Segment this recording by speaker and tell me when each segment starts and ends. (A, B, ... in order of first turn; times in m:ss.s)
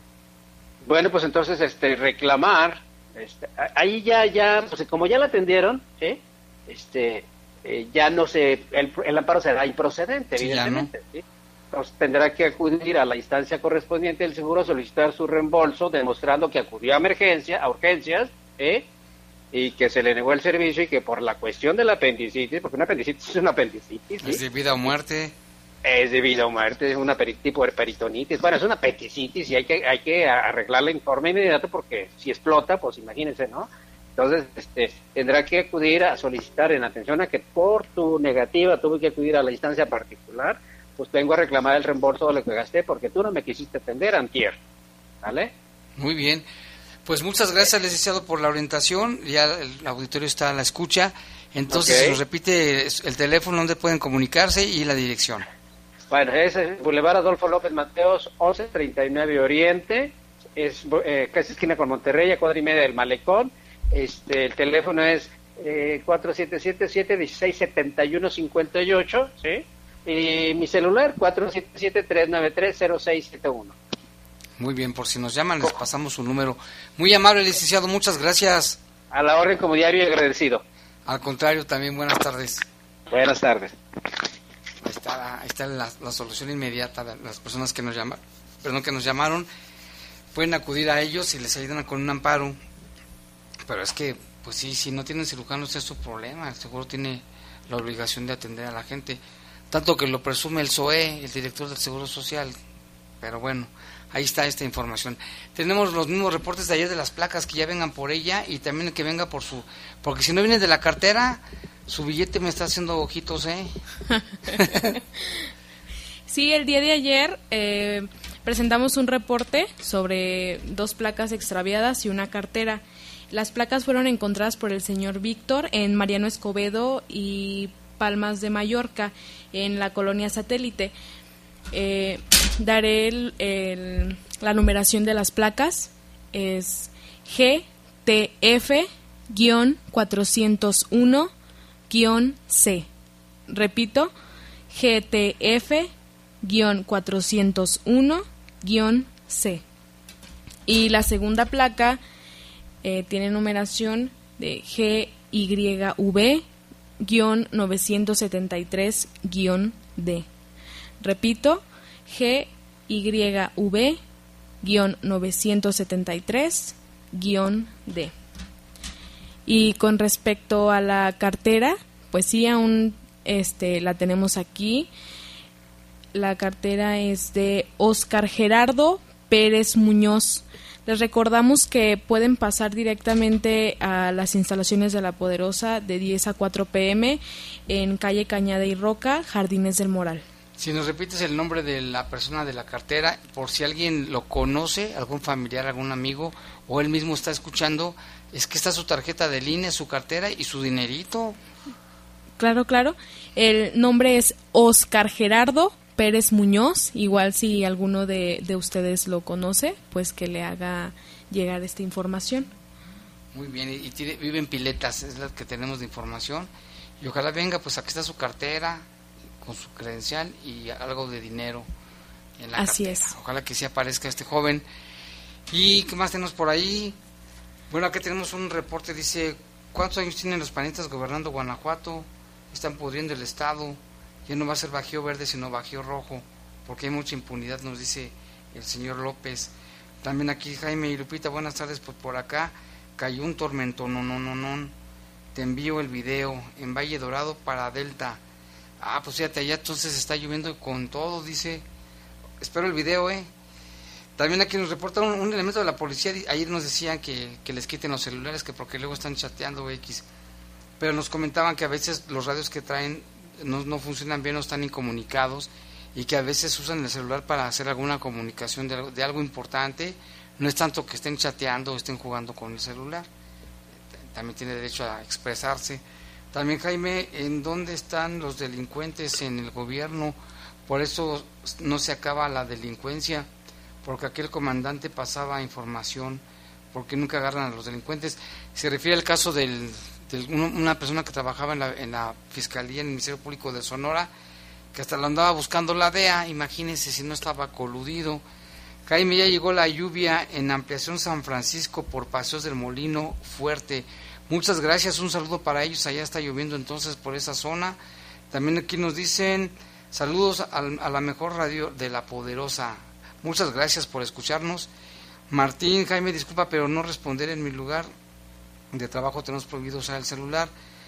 0:00.8-0:18.9 A
0:10.4-0:10.9 B
0:19.5-0:24.4 A
0:24.2-0:25.4 B
0:25.8-0:44.6 A
0:45.2-0:45.5 A
0:46.0-0:46.4 B
0:47.0-0:55.4 B
0:51.7-0:52.2 A
0:56.1-1:13.8 A
1:14.6-1:18.8 B
1:19.1-1:20.6 A
1:21.1-1:22.6 B
1:23.1-1:23.8 A
1:24.8-1:29.5 B
1:30.3-1:32.6 B
1:33.7-1:42.6 B
1:43.2-1:53.7 B
1:54.5-1:54.9 B
1:54.5-1:55.2 C
1:56.3-2:10.9 C
2:11.7-2:21.3 C
2:21.9-2:22.9 C
2:23.5-2:24.1 C
2:24.7-2:25.9 C
2:26.4-2:29.6 C
2:30.7-2:32.0 C
2:32.8-2:36.4 C
2:37.0-2:40.3 C
2:41.0-2:44.0 C
2:44.6-2:48.1 C
2:49.5-2:54.9 C
2:56.1-3:10.2 C
3:10.6-3:21.4 B
3:22.4-3:32.5 C
3:33.3-3:36.5 B
3:37.0-3:38.8 B
3:39.4-3:41.7 B
3:42.4-3:44.6 B
3:42.6-3:43.2 C
3:45.5-3:47.0 B
3:47.7-4:04.7 B
4:05.3-4:08.2 B
4:08.8-4:11.6 B
4:12.4-4:13.3 B
4:14.2-4:20.0 B
4:20.8-4:33.1 B
4:34.1-4:43.3 B
4:43.8-4:54.1 B
4:54.7-4:58.2 B
4:58.9-5:07.8 B
5:08.3-5:14.7 B
5:15.3-5:17.9 B
5:18.7-5:20.5 B